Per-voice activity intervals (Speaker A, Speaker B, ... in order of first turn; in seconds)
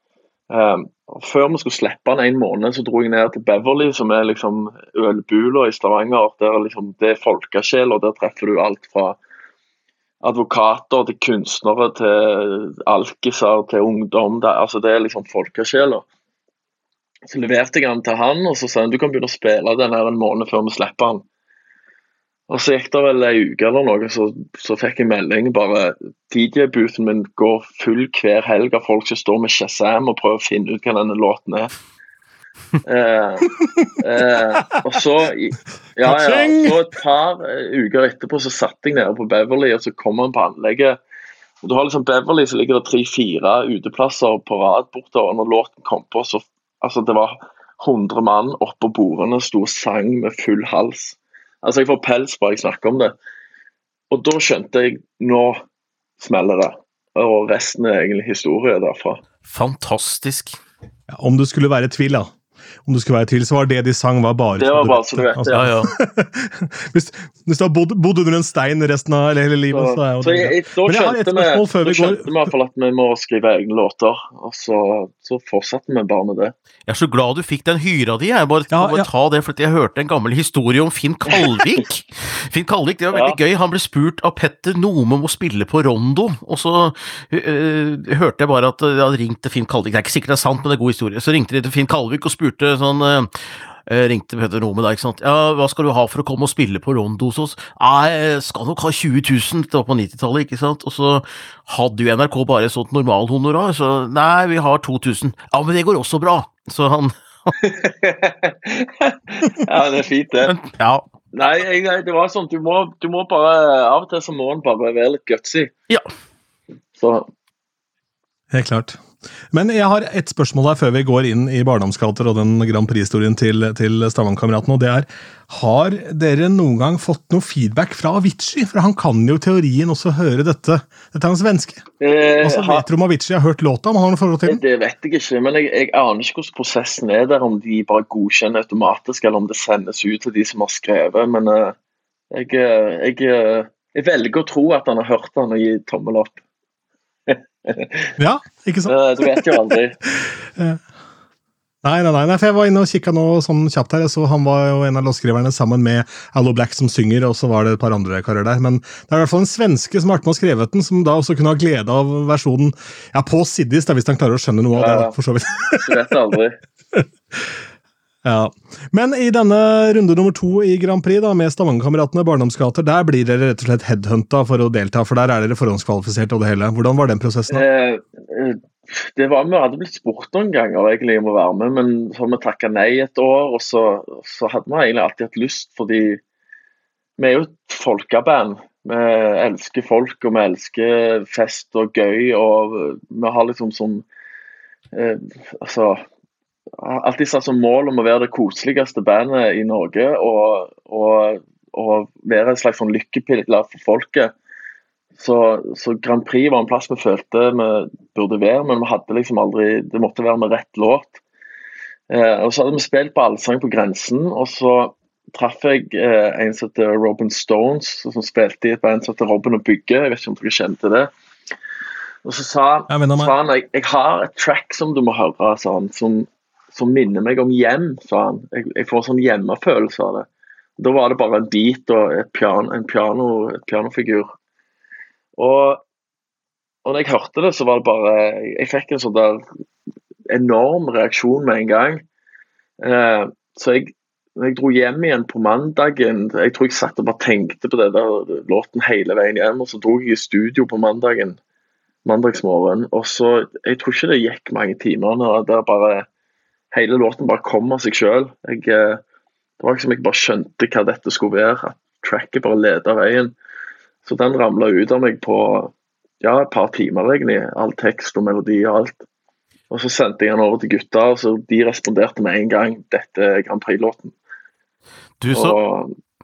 Speaker A: 0.5-9.2, 10.2-16.1, 17.3-21.2, 22.5-31.7, 32.8-41.0, 41.6-53.1, 54.1-55.6, 56.2-59.2, 64.5-65.7, 69.7-76.5, 81.3-81.8, 83.1-83.4, 107.6-110.5, 111.3-115.7, 117.0-117.3, 132.0-132.8, 134.4-141.7, 142.3-146.4, 147.3-148.1, 148.9-150.0, 164.7-165.1, 165.8-166.6, 177.5-186.2, 187.2-194.1, 194.9-196.0, 196.8-204.3, 205.2-211.2, 212.1-221.1, 222.2-230.3, 230.8-234.3, 235.4-235.8, 236.8-239.4, 240.3-242.0, 242.8-251.4, 252.0-256.1, 256.7-259.0, 259.6-263.3, 264.0-269.0, 269.7-274.1, 275.3-275.9
Speaker B: 36.0-36.8, 61.1-62.3, 62.9-72.5, 78.7-79.1, 118.5-119.0, 119.5-131.8, 132.4-134.6, 148.2-149.5, 150.1-150.8, 151.8-165.9, 166.9-167.5, 168.2-177.6, 222.9-223.3
Speaker C: 59.5-60.6, 65.5-65.9, 76.8-107.5, 110.4-111.1, 275.2-275.6